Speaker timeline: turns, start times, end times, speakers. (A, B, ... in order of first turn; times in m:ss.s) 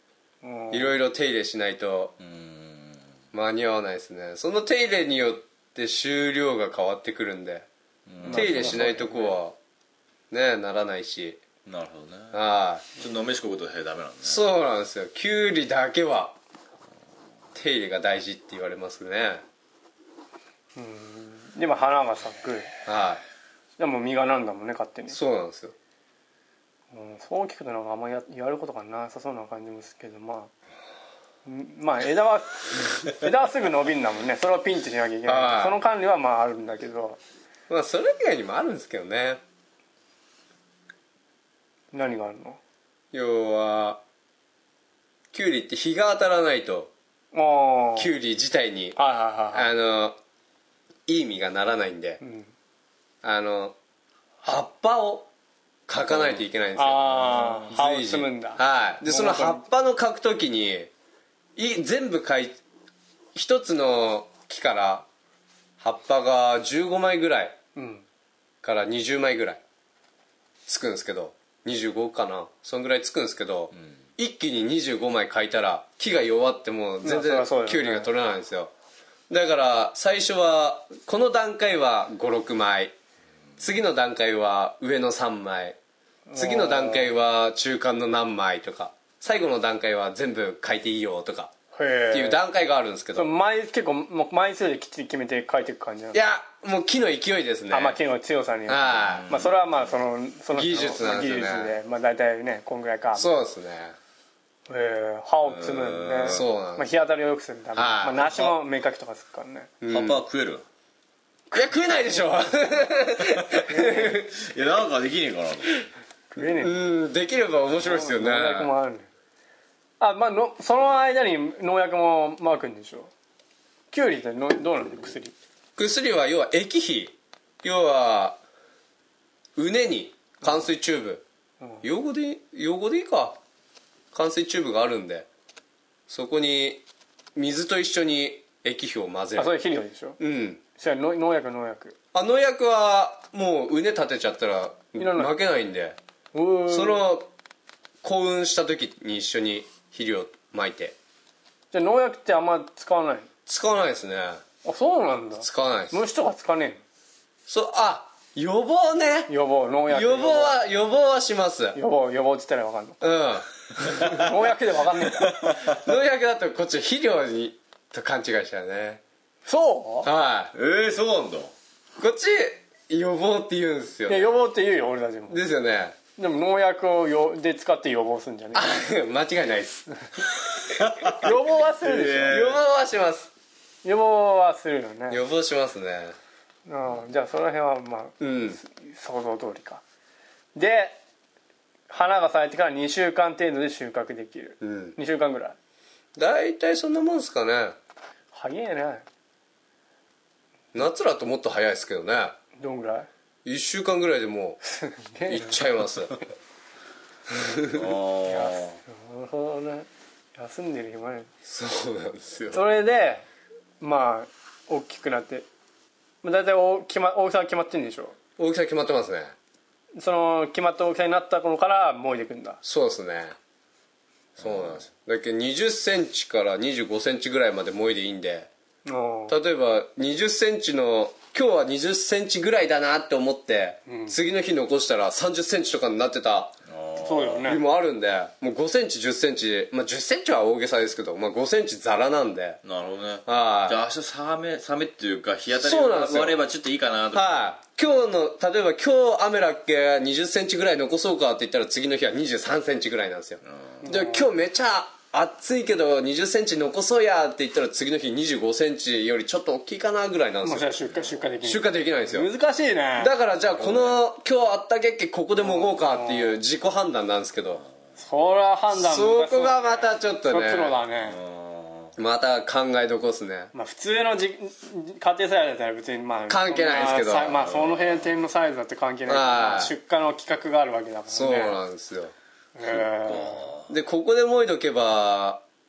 0:00.4-0:01.0 A
0:00.7-0:02.1 B
0:02.2-0:03.1 C
0:03.3-0:07.7 B
0:08.1-0:09.0 C
0:08.2-0:09.4 A
0:08.3-0:09.6 B
0:10.3-0:11.4 B
0:11.6-0:12.4 C
0:12.3-0:12.8 B
0:13.0-0:14.4 C
0:14.2-0:16.4 B
0:17.5-0:19.4 B
0:20.8-0:22.7 A
0:22.8-0:23.2 B
0:23.8-0:25.2 A
0:25.1-0:25.7 B
0:26.9-0:30.5 A
0:31.4-0:37.2 A
0:35.3-0:35.8 B
0:37.7-0:39.4 B
0:41.9-0:42.6 A
0:43.1-0:44.0 B
0:45.3-0:46.9 B
0:47.3-0:48.1 A
0:48.0-0:49.0 B
0:49.0-0:49.7 A
0:49.5-0:50.2 B
0:51.1-0:52.2 B
0:52.2-0:52.5 A
0:53.2-0:53.7 B
0:54.4-0:55.3 B
0:55.9-1:00.9 B
0:56.7-0:59.6 A
1:01.6-1:02.6 B
1:03.3-1:05.0 B
1:05.8-1:07.6 B
1:07.7-1:08.0 A
1:08.6-1:09.6 B
1:10.7-1:18.7 B
1:17.0-1:18.1 A
1:19.3-1:22.9 B
1:23.6-1:25.8 B
1:26.3-1:27.1 A
1:26.4-1:31.5 B
1:31.7-1:32.4 A
1:32.1-1:33.3 B
1:33.1-1:36.2 A
1:36.1-1:38.0 B
1:37.7-1:43.3 A
1:38.7-1:39.3 B
1:39.1-1:39.6 C
1:40.5-1:41.8 B
1:43.1-1:44.0 B
1:44.7-1:49.7 A
1:45.4-1:46.4 C
1:46.2-1:46.9 B
1:47.7-1:48.3 B
1:49.8-1:50.2 B
1:49.9-1:50.6 C
1:51.5-1:54.3 B
1:53.3-1:55.9 C
1:53.7-1:54.0 A
1:56.3-1:56.8 A
1:56.4-1:58.7 B
1:57.8-1:59.1 A
2:00.0-2:03.1 A
2:03.9-2:05.3 A
2:05.8-2:08.4 B
2:09.6-2:11.2 B
2:11.8-2:13.4 B
2:14.1-2:15.3 B
2:16.1-2:16.8 B
2:17.3-2:19.5 B
2:19.4-2:20.2 A
2:20.2-2:20.6 B
2:20.8-2:21.9 A
2:22.1-2:26.0 B
2:25.0-2:25.3 A
2:26.3-2:27.0 A
2:26.7-2:27.3 B
2:28.0-2:30.9 B
2:31.7-2:33.3 A
2:33.5-2:34.4 B
2:34.6-2:36.8 A
2:35.4-2:36.0 B
2:37.5-2:39.3 B
2:39.3-2:40.6 A
2:39.9-2:41.8 B
2:41.7-2:43.1 A
2:43.0-2:44.4 B
2:43.8-2:45.6 A
2:45.4-2:45.8 C
2:45.6-2:49.0 B
2:49.4-2:50.1 A
2:50.0-2:50.5 B
2:50.5-2:51.5 C
2:52.0-2:54.3 B
2:54.1-2:55.4 A
2:55.3-2:56.0 B
2:56.2-2:58.8 A
2:58.5-3:00.2 B
3:00.6-3:02.6 C
3:01.0-3:02.6 A
3:02.2-3:03.3 B
3:03.8-3:05.2 A
3:05.1-3:06.1 B
3:06.7-3:09.8 A
3:08.2-3:08.6 B
3:10.5-3:11.0 A
3:11.9-3:15.6 A
3:14.6-3:15.0 B
3:16.2-3:17.8 B
3:18.3-3:19.0 A
3:20.7-3:22.4 B
3:22.6-3:23.1 A
3:23.4-3:24.6 B
3:24.7-3:25.6 A
3:25.3-3:26.2 B
3:27.3-3:27.9 B
3:27.7-3:28.8 C
3:28.2-3:31.3 A
3:31.4-3:32.6 B
3:32.5-3:33.2 A
3:33.8-3:35.4 A
3:36.2-3:38.2 A
3:38.4-3:39.3 B
3:39.9-3:42.6 A
3:42.6-3:43.4 B
3:44.4-3:48.5 B
3:48.8-3:49.4 A
3:49.3-3:56.5 B
3:53.9-3:54.2 A
3:56.7-3:57.5 C
3:57.0-3:57.6 A
3:57.4-4:02.6 B
4:02.6-4:07.4 C
4:03.2-4:03.8 B
4:05.5-4:06.4 B
4:07.1-4:20.7 B
4:13.8-4:14.3 A
4:20.4-4:23.2 A
4:21.4-4:22.3 B
4:23.0-4:27.6 B
4:25.4-4:26.4 A
4:28.0-4:31.2 A
4:28.7-4:30.8 B
4:31.0-4:31.9 C
4:32.0-4:33.5 B
4:33.5-4:41.6 A
4:36.3-4:37.4 B
4:37.2-4:38.1 C
4:39.1-4:39.7 B
4:41.1-4:42.1 B
4:42.6-4:43.5 A
4:42.8-4:43.7 C
4:43.7-4:45.4 B